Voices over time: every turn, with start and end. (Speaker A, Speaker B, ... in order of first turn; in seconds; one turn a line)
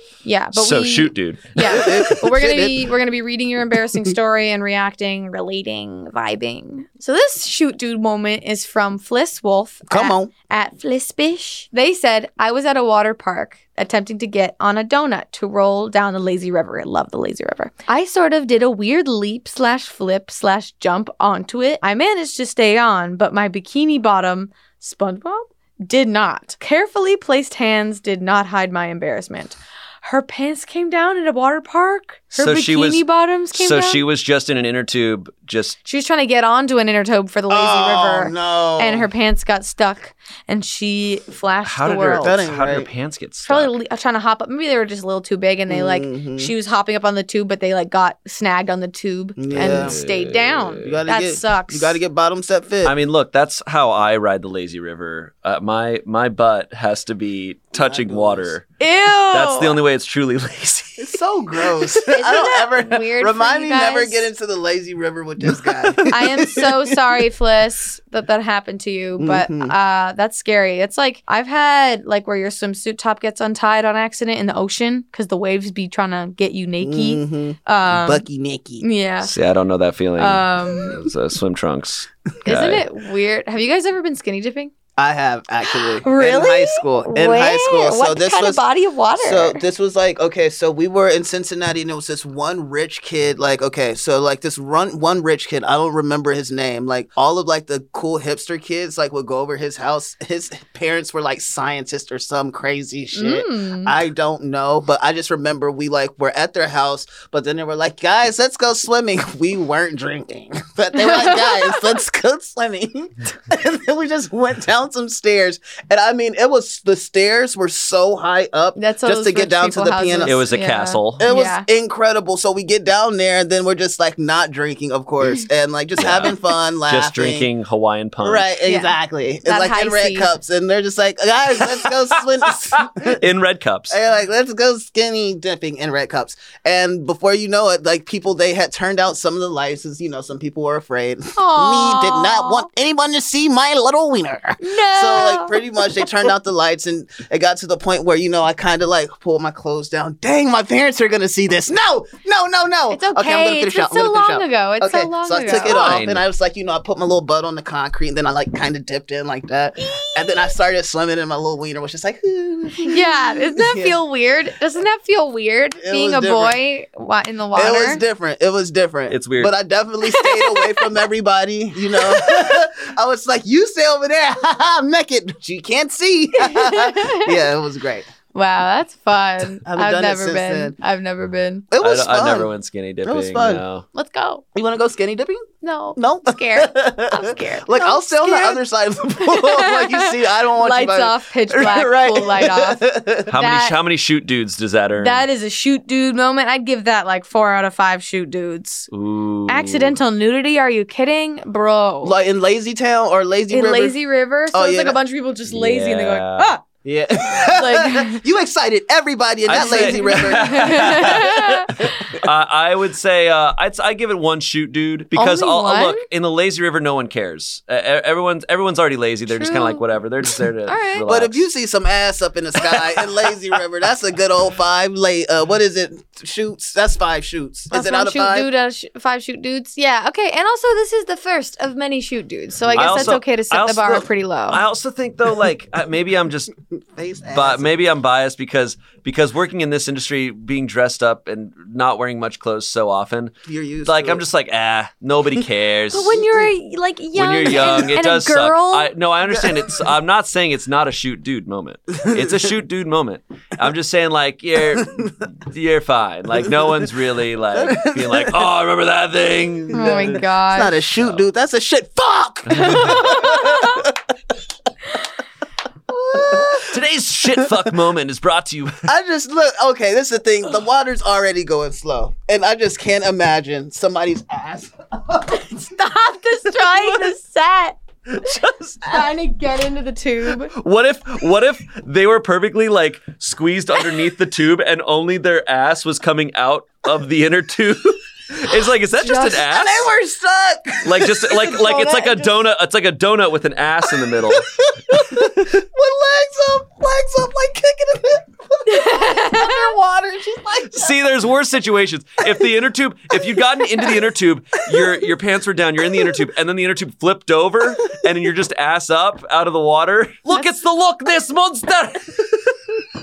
Speaker A: 0.2-34.0
Speaker B: 0.5-2.0
Speaker C: 1.6-2.9
Speaker C: 9.9-10.3
Speaker B: 32.3-35.8
Speaker A: 35.8-42.3
Speaker C: 37.5-39.1
Speaker B: 41.6-43.7
Speaker C: 42.2-42.9
Speaker A: 43.5-52.0
Speaker C: 45.7-46.5
Speaker C: 49.4-50.0
Speaker B: 49.5-50.9
Speaker C: 50.8-52.9
Speaker B: 52.8-58.6
Speaker C: 57.7-58.5
Speaker A: 58.8-59.8
Speaker B: 59.3-61.2
Speaker C: 61.0-67.0
Speaker A: 62.0-64.3
Speaker A: 66.1-78.2
Speaker C: 69.2-69.7
Speaker C: 76.8-78.8
Speaker A: 78.8-79.3
Speaker B: 79.2-82.8
Speaker A: 80.2-81.0
Speaker A: 82.4-84.7
Speaker C: 85.0-88.6
Speaker A: 85.7-89.6
Speaker C: 89.2-120.4
Speaker A: 103.1-103.9
Speaker A: 110.9-111.9
Speaker A: 118.8-121.7
Speaker B: 120.2-121.3
Speaker C: 121.2-127.5
Speaker B: 126.0-128.5
Speaker C: 128.2-133.2
Speaker A: 128.6-128.9
Speaker A: 129.4-130.3
Speaker B: 132.7-134.0
Speaker C: 133.9-164.0
Speaker A: 141.3-142.7
Speaker A: 144.6-146.0
Speaker A: 152.9-156.0
Speaker B: 155.5-156.2
Speaker A: 159.9-160.2
Speaker A: 162.8-168.0
Speaker C: 165.8-166.6
Speaker C: 167.5-178.1
Speaker B: 169.1-169.5
Speaker A: 170.1-170.8
Speaker A: 171.9-172.5
Speaker A: 176.3-177.4
Speaker A: 178.3-181.7
Speaker C: 179.6-180.7
Speaker C: 181.7-182.5
Speaker B: 181.8-183.8
Speaker C: 183.0-183.6
Speaker A: 183.9-184.4
Speaker C: 184.5-193.3
Speaker A: 185.6-188.6
Speaker A: 189.2-193.8
Speaker B: 193.3-195.2
Speaker A: 195.0-198.9
Speaker B: 198.9-200.0
Speaker A: 199.5-202.1
Speaker C: 202.0-203.9
Speaker A: 203.5-206.6
Speaker C: 204.5-205.0
Speaker B: 205.5-206.5
Speaker C: 206.8-212.2
Speaker A: 207.3-208.2
Speaker B: 209.5-221.5
Speaker A: 209.5-211.9
Speaker A: 215.1-216.0
Speaker A: 219.3-219.8
Speaker A: 220.7-221.1
Speaker C: 221.1-228.5
Speaker A: 227.7-234.6
Speaker C: 232.7-233.1
Speaker B: 232.7-236.6
Speaker C: 236.9-237.7
Speaker B: 237.3-246.2
Speaker C: 243.4-244.2
Speaker A: 245.9-248.9
Speaker B: 247.2-260.0
Speaker C: 249.3-249.7
Speaker C: 252.0-252.5
Speaker C: 254.7-255.1
Speaker C: 256.4-256.9
Speaker C: 257.5-258.4
Speaker C: 259.7-264.0
Speaker A: 259.7-260.8
Speaker B: 262.5-263.2
Speaker A: 262.5-263.8
Speaker C: 265.9-266.8
Speaker B: 266.6-268.9
Speaker C: 267.4-267.7
Speaker C: 268.9-275.6
Speaker A: 275.3-277.8
Speaker B: 278.1-279.0
Speaker A: 278.9-280.5
Speaker B: 280.4-289.9
Speaker A: 289.0-289.3
Speaker C: 289.1-292.3
Speaker B: 290.8-294.5
Speaker C: 293.9-301.0
Speaker A: 298.7-299.7
Speaker B: 300.7-312.6
Speaker C: 303.6-303.9